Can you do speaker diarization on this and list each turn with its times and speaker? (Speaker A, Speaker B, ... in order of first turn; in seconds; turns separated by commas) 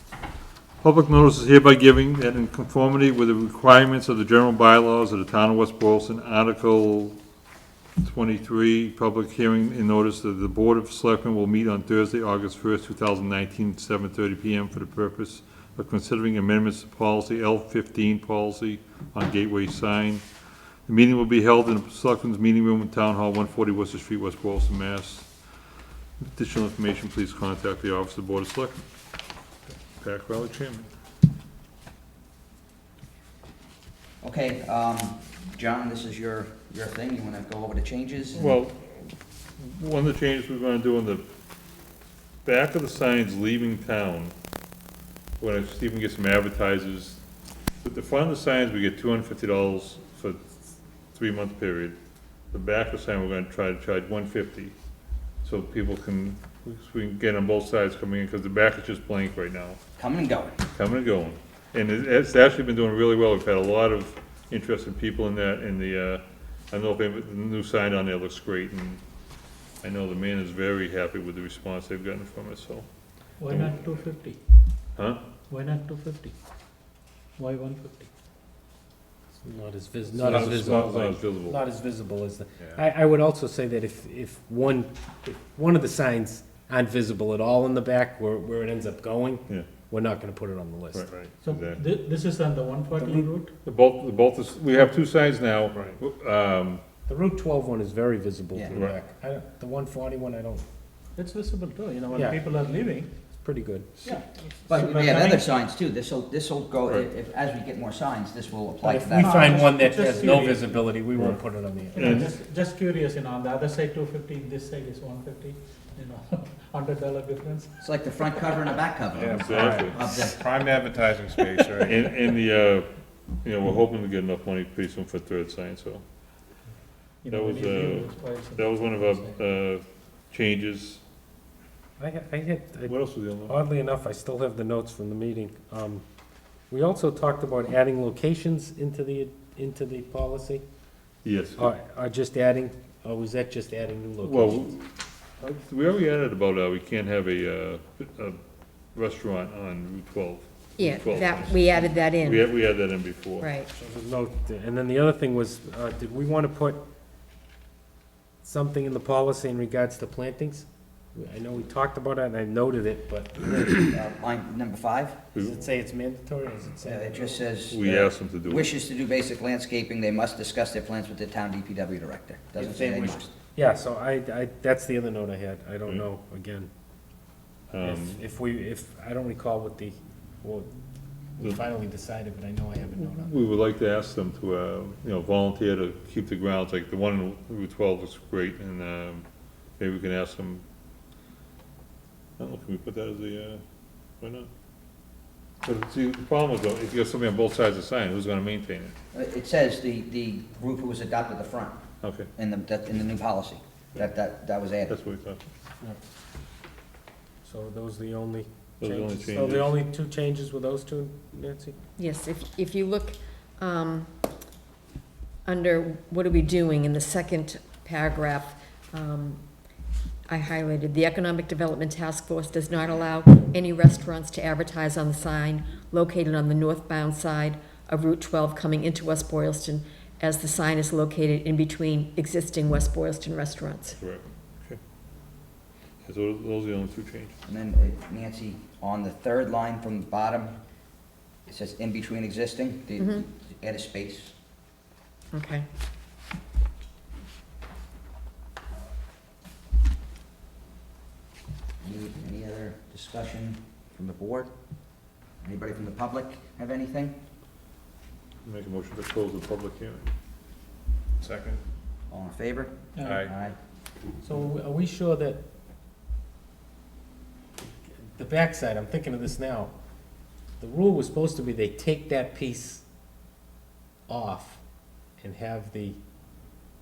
Speaker A: 0.8-7.2, Speaker A: 8.0-20.2, Speaker A: 20.9-25.3, Speaker A: 26.2-28.8, Speaker A: 30.0-30.9, Speaker B: 34.2-38.6, Speaker A: 38.3-41.2, Speaker A: 42.5-44.3, Speaker A: 45.4-47.2, Speaker A: 47.8-50.5, Speaker A: 51.1-52.0, Speaker A: 52.5-54.7, Speaker A: 55.4-59.8, Speaker B: 60.0-60.6, Speaker A: 60.7-69.0, Speaker A: 69.8-72.9, Speaker C: 73.4-74.4, Speaker A: 73.5-74.0, Speaker A: 75.0-75.2, Speaker C: 75.5-76.3, Speaker C: 77.4-78.1, Speaker D: 79.4-91.1, Speaker E: 80.1-81.0, Speaker A: 80.2-81.6, Speaker A: 90.9-91.8, Speaker C: 91.4-93.5, Speaker D: 93.0-93.3, Speaker A: 93.7-96.8, Speaker D: 97.1-100.6, Speaker C: 101.2-103.1, Speaker D: 102.1-102.4, Speaker D: 103.4-104.0, Speaker C: 104.0-105.5, Speaker B: 104.7-110.3, Speaker D: 108.8-112.3, Speaker C: 109.1-110.8, Speaker C: 111.9-117.7, Speaker A: 112.0-112.3, Speaker B: 117.8-120.5, Speaker E: 119.1-122.1, Speaker A: 119.4-120.0, Speaker A: 121.7-122.9, Speaker A: 123.4-126.0, Speaker C: 127.2-129.6, Speaker A: 127.3-131.0, Speaker D: 132.0-136.0, Speaker A: 132.9-133.5, Speaker D: 136.7-140.6, Speaker A: 141.2-141.7, Speaker D: 141.6-144.8, Speaker A: 144.2-144.8, Speaker A: 145.4-148.4, Speaker A: 148.9-153.5, Speaker F: 150.8-152.5, Speaker F: 153.4-153.7, Speaker D: 153.7-156.8, Speaker D: 158.4-163.6, Speaker B: 163.4-165.2, Speaker A: 165.3-165.6, Speaker D: 165.4-167.5, Speaker B: 166.8-173.3, Speaker A: 167.7-168.7, Speaker D: 172.6-176.7, Speaker A: 177.7-178.2, Speaker D: 177.8-180.7, Speaker D: 181.4-183.5, Speaker A: 183.0-189.2, Speaker A: 189.8-190.6, Speaker A: 192.4-193.6, Speaker A: 194.2-194.5, Speaker A: 195.6-198.9, Speaker B: 199.1-201.8, Speaker A: 202.0-202.3, Speaker B: 202.4-204.9, Speaker A: 204.9-205.4, Speaker D: 207.4-211.8, Speaker A: 208.8-209.7, Speaker F: 212.0-214.1, Speaker F: 215.4-219.4, Speaker F: 220.3-234.0, Speaker A: 233.9-234.8, Speaker A: 236.0-237.3, Speaker B: 237.5-240.6, Speaker B: 241.5-244.3, Speaker F: 243.0-243.2, Speaker F: 245.3-245.7, Speaker B: 251.8-254.5, Speaker B: 255.4-257.2, Speaker A: 258.4-260.1, Speaker E: 261.2-261.6, Speaker B: 262.1-263.6, Speaker C: 262.9-263.3, Speaker E: 263.0-263.3, Speaker D: 264.2-265.4, Speaker D: 268.1-269.7, Speaker D: 270.6-272.8, Speaker D: 274.1-274.6, Speaker D: 275.2-276.0